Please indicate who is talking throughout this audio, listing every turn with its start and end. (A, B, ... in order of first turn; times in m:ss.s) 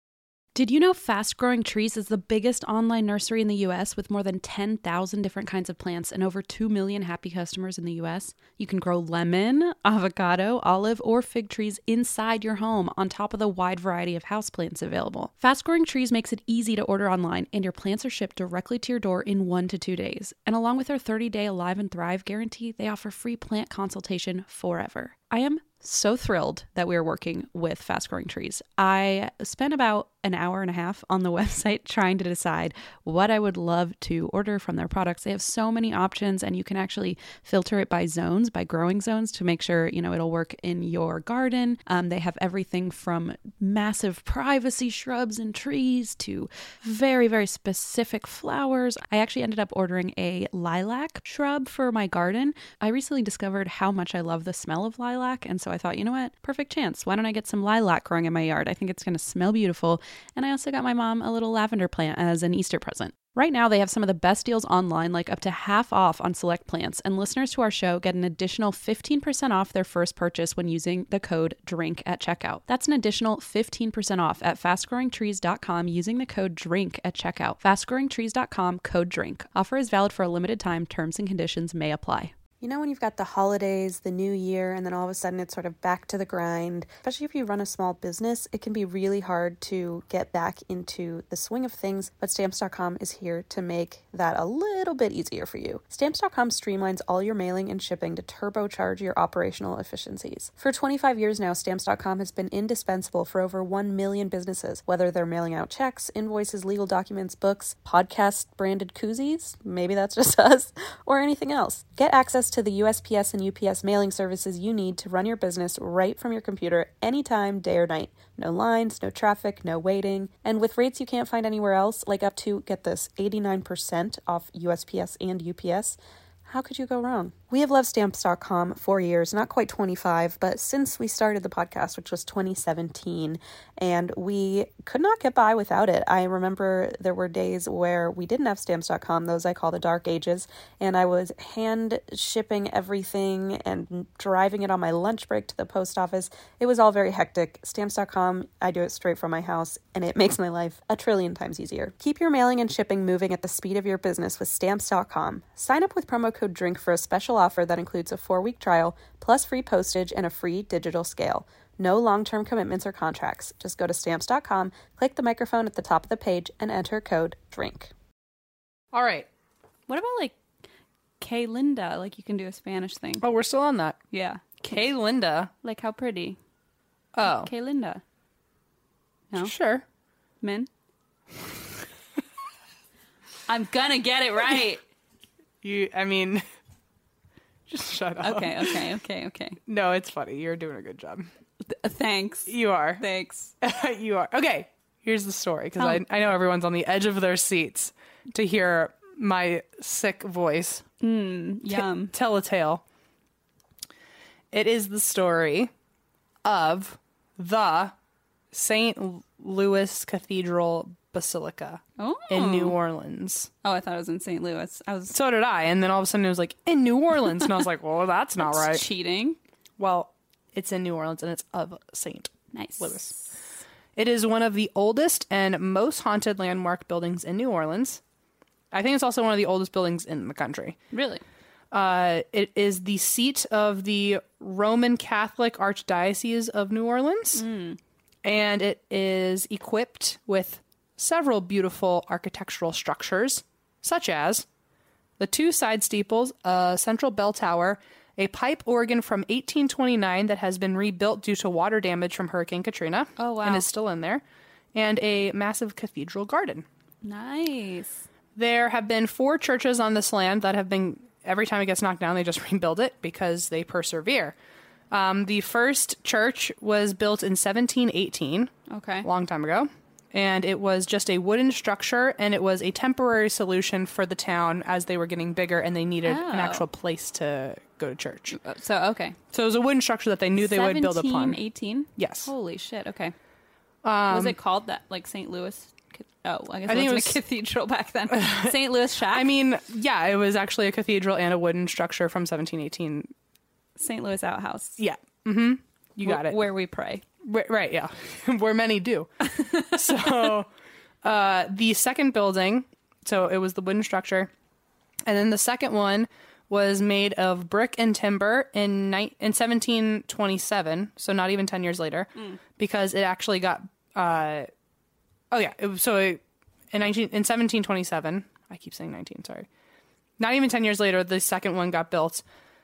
0:00.5-1:22.3 A
1:22.6-2:47.9 B
2:48.9-2:49.3 C
2:49.9-2:50.4 D
2:51.2-2:53.2 D
2:53.2-2:54.0 C
2:54.1-2:54.8 D
2:54.6-2:55.5 C
2:55.6-2:56.4 D
2:57.1-2:57.5 C
2:57.2-2:58.0 D
2:59.4-2:59.8 C
3:00.4-3:00.7 D
3:03.5-3:04.8 D
3:05.6-3:06.4 C
3:07.7-3:08.8 C
3:08.2-3:09.6 D
3:09.7-3:11.3 C
3:11.7-3:13.5 D
3:12.5-3:13.0 C
3:13.6-3:20.8 C
3:15.8-3:16.0 D
3:21.0-3:22.1 D
3:21.7-3:22.8 C
3:24.5-3:25.7 C
3:26.4-3:27.9 C
3:28.5-3:33.5 C
3:32.0-3:32.8 D
3:33.6-3:35.1 D
3:35.1-3:38.8 C
3:38.4-3:39.4 D
3:39.8-3:43.1 C
3:42.5-3:43.3 D
3:44.0-3:48.0 C
3:48.7-3:50.8 C
3:50.9-3:51.2 D
3:51.7-3:57.4 C
3:57.3-3:57.8 D
3:58.2-4:04.4 C
4:05.2-4:14.2 C
4:13.2-4:13.7 D
4:14.7-4:16.6 C
4:17.0-4:18.0 D
4:18.3-4:24.3 C
4:24.9-4:28.5 C
4:28.7-4:29.1 D
4:29.0-4:38.4 C
4:36.0-4:36.6 D
4:38.3-4:39.2 D
4:39.3-4:41.4 C
4:40.4-4:43.1 D
4:42.0-4:42.3 C
4:43.8-4:44.4 C
4:44.1-4:49.3 D
4:46.7-4:47.2 C
4:48.1-4:48.5 C
4:49.1-4:53.1 C
4:53.8-4:54.8 D
4:54.8-4:56.4 C
4:56.0-4:57.0 D
4:57.2-5:00.5 C
5:01.0-5:04.3 C
5:05.0-5:14.5 C
5:15.3-5:16.2 C
5:16.7-5:19.5 C
5:20.2-5:22.2 C